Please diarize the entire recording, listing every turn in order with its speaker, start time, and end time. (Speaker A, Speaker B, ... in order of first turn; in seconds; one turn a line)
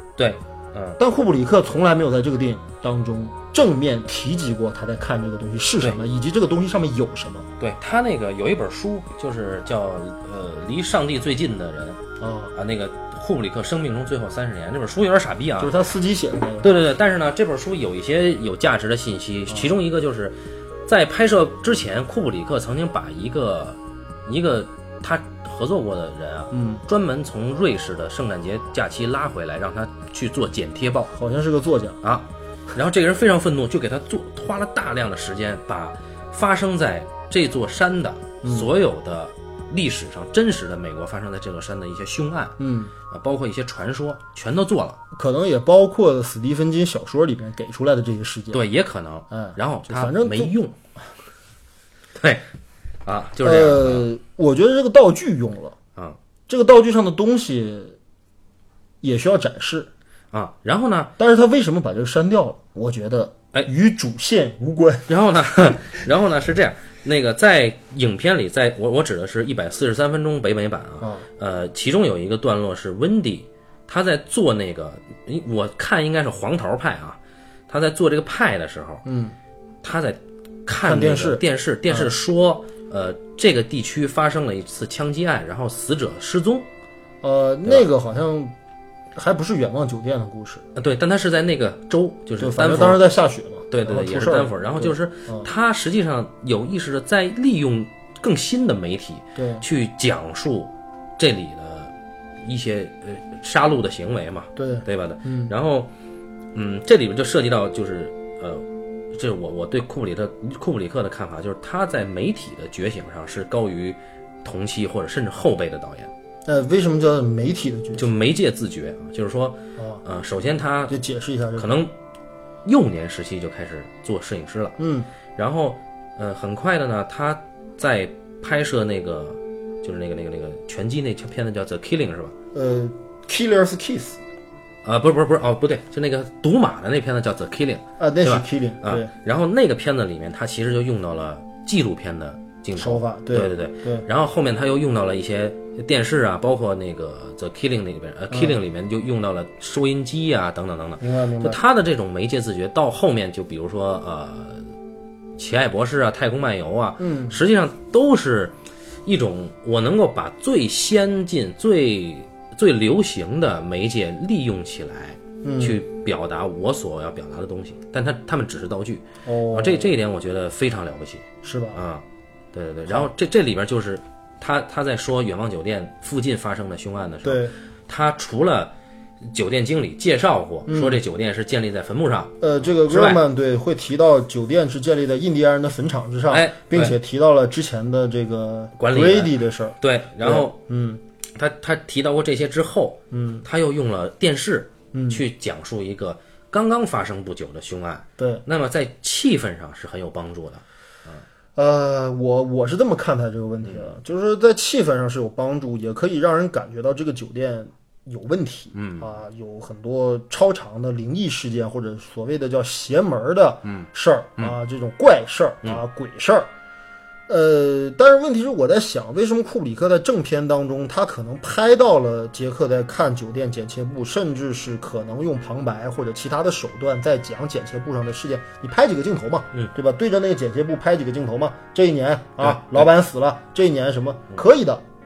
Speaker A: 0.2-1.0
Speaker B: 1.0-7.5
Speaker A: 7.6-12.0
Speaker B: 12.2-12.5
Speaker A: 12.5-15.7
Speaker B: 15.6-16.7
Speaker A: 16.6-31.1
Speaker B: 26.5-26.8
Speaker B: 31.1-32.0
Speaker A: 32.0-42.6
Speaker B: 38.4-38.7
Speaker B: 42.6-42.9
Speaker A: 43.1-45.0
Speaker B: 45.1-48.6
Speaker A: 48.5-50.8
Speaker B: 49.3-50.5
Speaker A: 52.1-52.5
Speaker A: 53.0-54.1
Speaker B: 53.4-55.8
Speaker B: 56.5-58.0
Speaker B: 59.0-59.9
Speaker A: 60.3-61.1
Speaker B: 61.2-65.1
Speaker A: 65.1-79.0
Speaker B: 71.0-71.3
Speaker B: 79.0-79.3
Speaker A: 79.8-86.7
Speaker B: 80.8-82.1
Speaker B: 87.2-88.5
Speaker B: 89.1-90.6
Speaker A: 90.7-93.1
Speaker B: 91.9-95.5
Speaker A: 93.7-105.9
Speaker B: 99.3-99.6
Speaker B: 104.5-105.5
Speaker A: 106.5-116.1
Speaker B: 116.5-118.1
Speaker A: 118.0-121.0
Speaker B: 119.8-120.0
Speaker B: 120.9-121.8
Speaker A: 121.5-121.9
Speaker A: 122.6-124.8
Speaker B: 124.8-125.1
Speaker A: 125.3-132.3
Speaker B: 132.5-134.2
Speaker A: 134.8-154.7
Speaker B: 138.0-139.1
Speaker B: 142.8-144.1
Speaker B: 148.3-148.6
Speaker B: 151.0-151.6
Speaker A: 155.4-183.2
Speaker B: 157.0-157.4
Speaker B: 165.4-165.8
Speaker B: 169.2-169.9
Speaker B: 171.4-171.8
Speaker B: 177.2-177.5
Speaker B: 180.7-181.0
Speaker B: 182.4-191.0
Speaker A: 186.3-187.0
Speaker A: 188.8-190.6
Speaker A: 191.3-201.2
Speaker B: 193.1-193.4
Speaker B: 194.9-195.2
Speaker B: 198.2-198.4
Speaker B: 201.6-216.5
Speaker A: 203.6-203.9
Speaker A: 208.7-209.1
Speaker A: 213.6-214.5
Speaker B: 217.3-234.8
Speaker A: 232.4-232.9